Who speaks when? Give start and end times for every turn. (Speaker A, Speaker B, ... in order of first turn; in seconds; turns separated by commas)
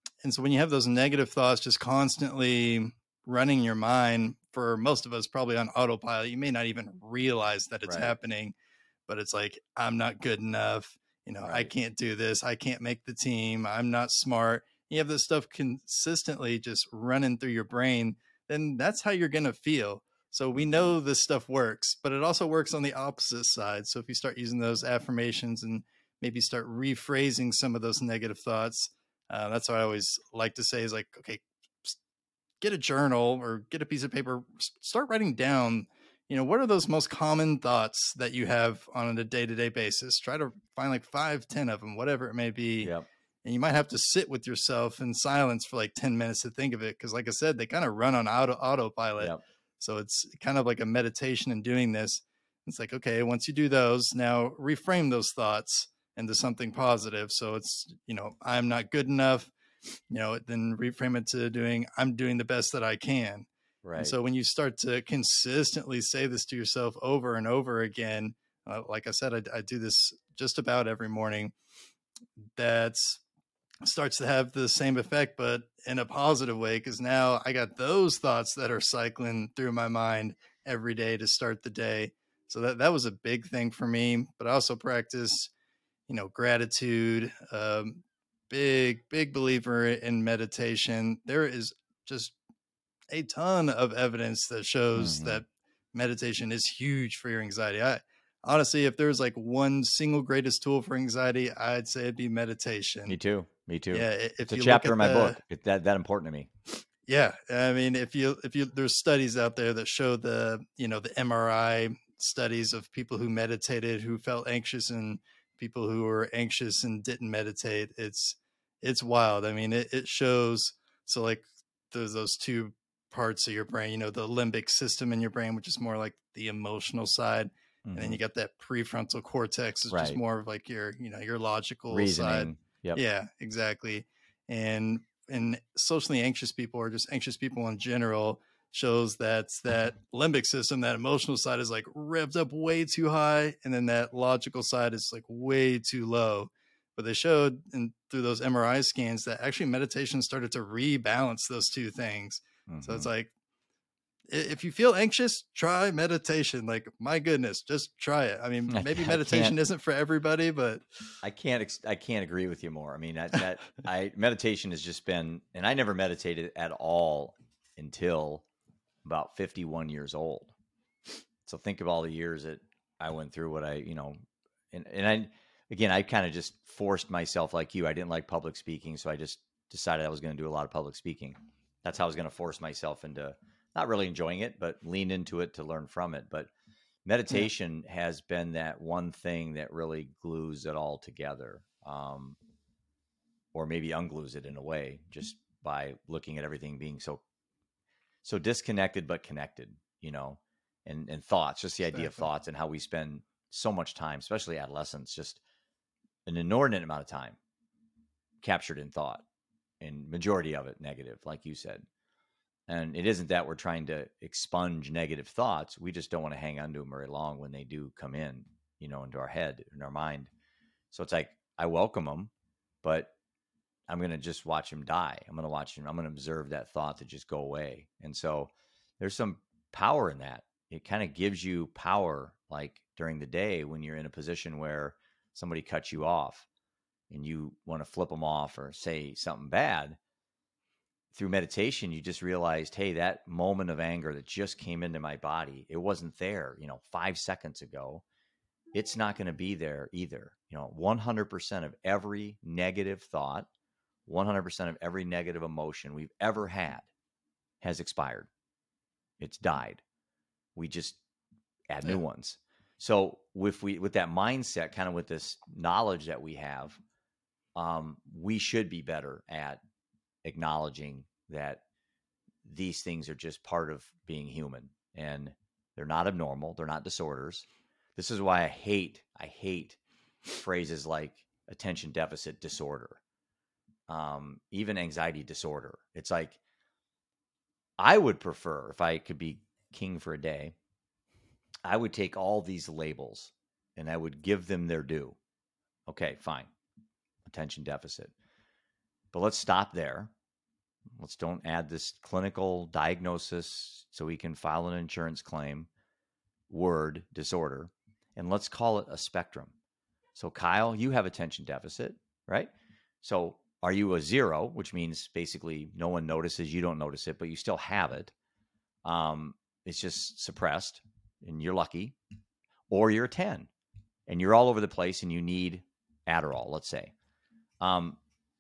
Speaker A: 0.2-8.5, Speaker B: 7.9-8.1, Speaker A: 9.1-32.0, Speaker B: 11.4-11.7, Speaker B: 20.6-20.9, Speaker A: 32.6-42.9, Speaker A: 43.4-59.5, Speaker A: 60.1-63.5, Speaker B: 63.8-64.1, Speaker A: 64.0-71.5, Speaker A: 72.6-73.2, Speaker A: 73.8-85.5, Speaker A: 86.1-92.4, Speaker A: 93.1-103.2, Speaker B: 95.0-95.4, Speaker B: 103.1-106.5, Speaker A: 103.9-105.4, Speaker A: 107.1-153.3, Speaker B: 127.8-128.2, Speaker B: 129.9-130.2, Speaker B: 131.9-133.0, Speaker B: 152.7-153.1, Speaker A: 154.3-160.8, Speaker B: 158.7-159.6, Speaker B: 161.2-168.4, Speaker B: 169.1-170.5, Speaker B: 171.5-174.2, Speaker B: 174.7-186.5, Speaker B: 187.1-192.4, Speaker B: 193.5-197.2, Speaker B: 198.2-205.4, Speaker A: 201.9-202.2, Speaker B: 206.3-207.4, Speaker B: 208.4-209.2, Speaker B: 209.8-211.9, Speaker B: 212.7-220.3, Speaker B: 220.9-222.3, Speaker B: 222.8-223.1, Speaker B: 223.9-236.5, Speaker B: 237.1-240.0, Speaker B: 241.1-248.0, Speaker B: 248.7-253.5, Speaker B: 254.1-256.9, Speaker B: 257.6-258.3, Speaker B: 259.2-259.8, Speaker B: 260.6-261.0, Speaker B: 261.7-266.8, Speaker B: 267.6-269.6, Speaker B: 270.2-271.6, Speaker B: 272.4-283.0, Speaker B: 283.9-286.4, Speaker B: 287.8-290.6, Speaker B: 291.7-295.2, Speaker B: 295.9-296.5, Speaker B: 297.2-298.1, Speaker B: 299.1-300.1, Speaker B: 301.0-305.7, Speaker B: 306.5-309.5, Speaker B: 310.1-312.5, Speaker B: 313.0-318.1, Speaker B: 318.9-322.0, Speaker B: 322.7-323.5, Speaker B: 324.1-326.9, Speaker B: 327.6-328.0